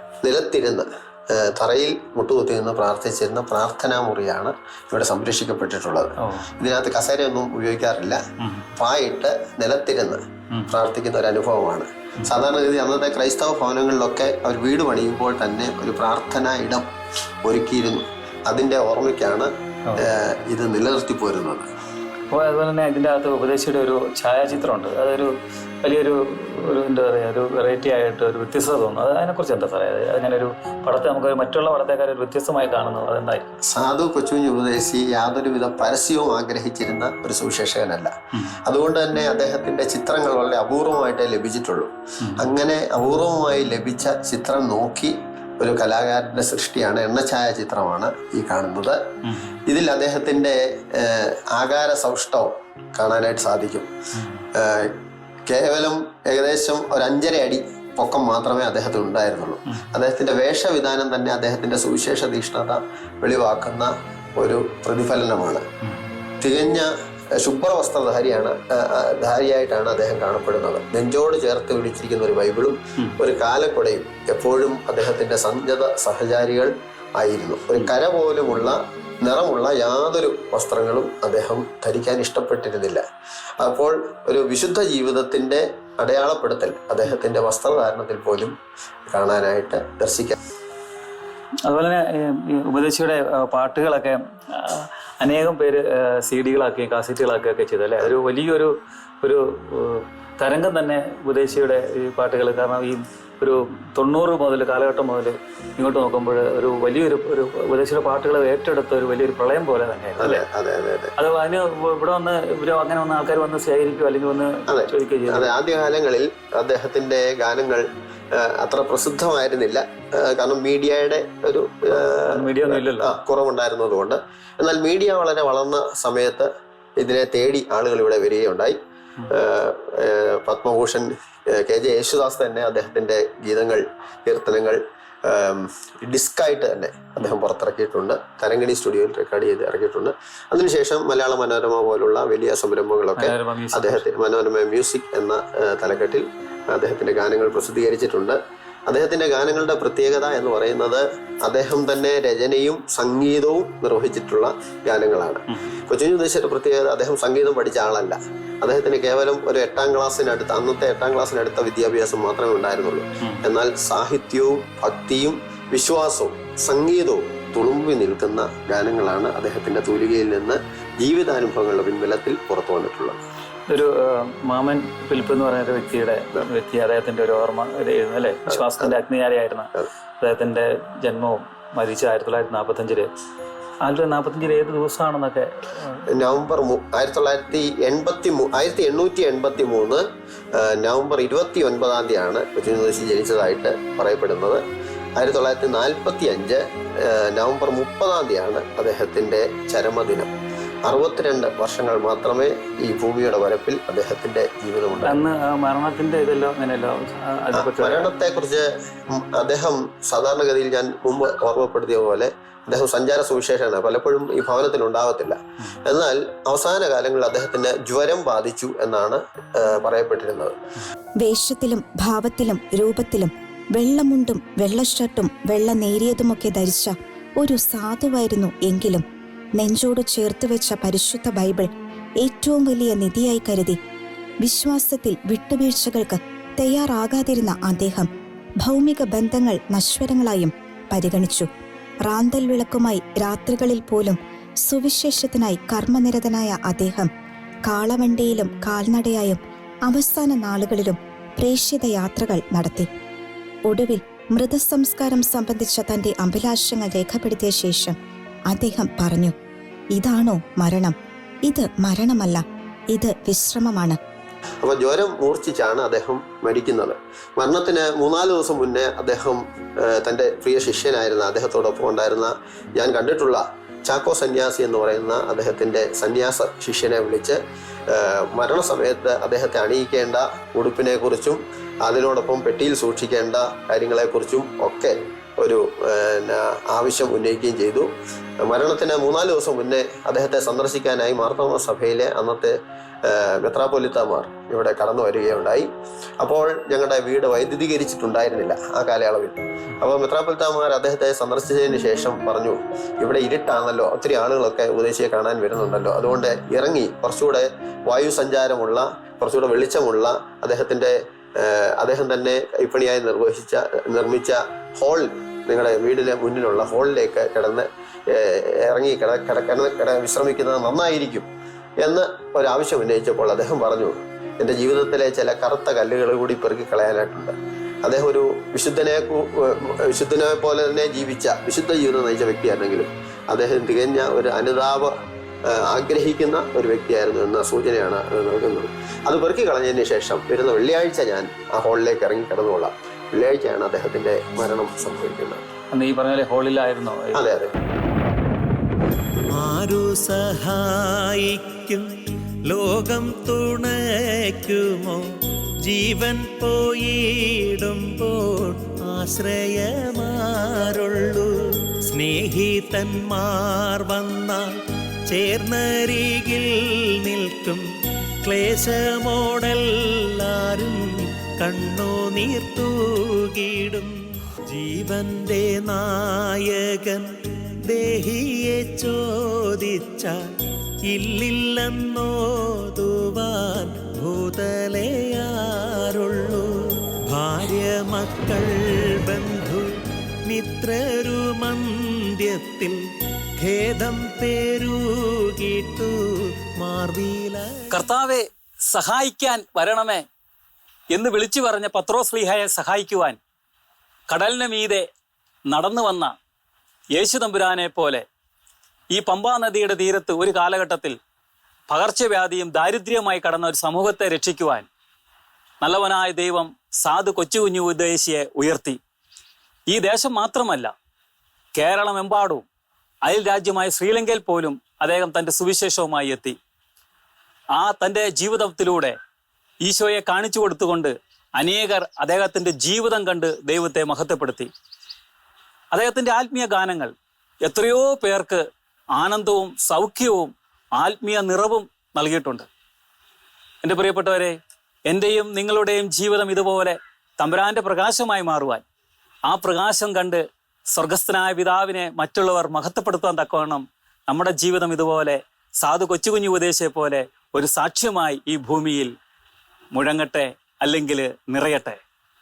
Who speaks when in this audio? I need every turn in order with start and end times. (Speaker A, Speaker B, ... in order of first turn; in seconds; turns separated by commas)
Speaker A: 0.2-8.2, Speaker B: 6.2-6.5, Speaker B: 8.4-8.7, Speaker A: 8.8-16.9, Speaker A: 17.4-21.7, Speaker B: 22.3-33.5, Speaker A: 33.6-49.0, Speaker B: 38.3-38.6, Speaker B: 42.2-42.5, Speaker B: 49.2-49.6, Speaker A: 49.6-53.9, Speaker B: 54.1-54.4, Speaker A: 54.5-65.7, Speaker A: 66.4-83.0, Speaker A: 83.6-88.5, Speaker A: 89.1-90.4, Speaker B: 91.6-110.4, Speaker A: 110.2-111.1, Speaker B: 111.2-115.5, Speaker A: 114.7-128.8, Speaker B: 122.3-123.2, Speaker A: 129.3-173.2, Speaker B: 143.2-144.1, Speaker B: 155.5-155.7, Speaker B: 173.7-183.1, Speaker A: 178.5-178.9, Speaker B: 183.8-186.0, Speaker A: 186.1-194.6, Speaker A: 195.2-200.3, Speaker A: 200.8-205.2, Speaker B: 205.0-208.1, Speaker A: 207.5-220.6, Speaker C: 221.2-229.0, Speaker C: 229.6-231.7, Speaker C: 232.2-233.8, Speaker C: 234.4-238.1, Speaker C: 238.6-241.5, Speaker C: 242.0-247.1, Speaker C: 247.7-252.9, Speaker C: 253.7-257.9, Speaker C: 258.5-259.3, Speaker C: 259.9-264.0, Speaker A: 264.6-287.9, Speaker A: 288.4-321.3, Speaker A: 321.8-334.9, Speaker A: 335.4-345.4, Speaker B: 345.7-347.3, Speaker A: 347.1-347.5, Speaker D: 349.3-351.9, Speaker D: 352.5-355.0, Speaker D: 355.6-367.6, Speaker D: 368.2-370.8, Speaker D: 371.4-373.9, Speaker D: 374.4-377.1, Speaker D: 377.6-380.3, Speaker D: 380.9-386.6, Speaker D: 387.1-389.7, Speaker D: 390.2-392.8, Speaker D: 393.4-396.0, Speaker D: 396.6-397.7, Speaker B: 397.7-400.0, Speaker B: 400.9-403.2, Speaker B: 404.1-404.9, Speaker B: 405.5-406.1, Speaker B: 406.9-408.0, Speaker B: 408.9-411.0, Speaker B: 411.7-414.7, Speaker B: 415.6-418.8, Speaker B: 419.7-420.7, Speaker B: 421.6-422.4, Speaker B: 423.0-426.4, Speaker B: 427.5-428.9, Speaker B: 429.6-434.5, Speaker B: 435.7-436.9, Speaker B: 437.4-442.5, Speaker B: 443.6-444.4, Speaker B: 444.9-448.6, Speaker B: 449.2-450.2, Speaker B: 450.8-458.9, Speaker B: 459.7-461.8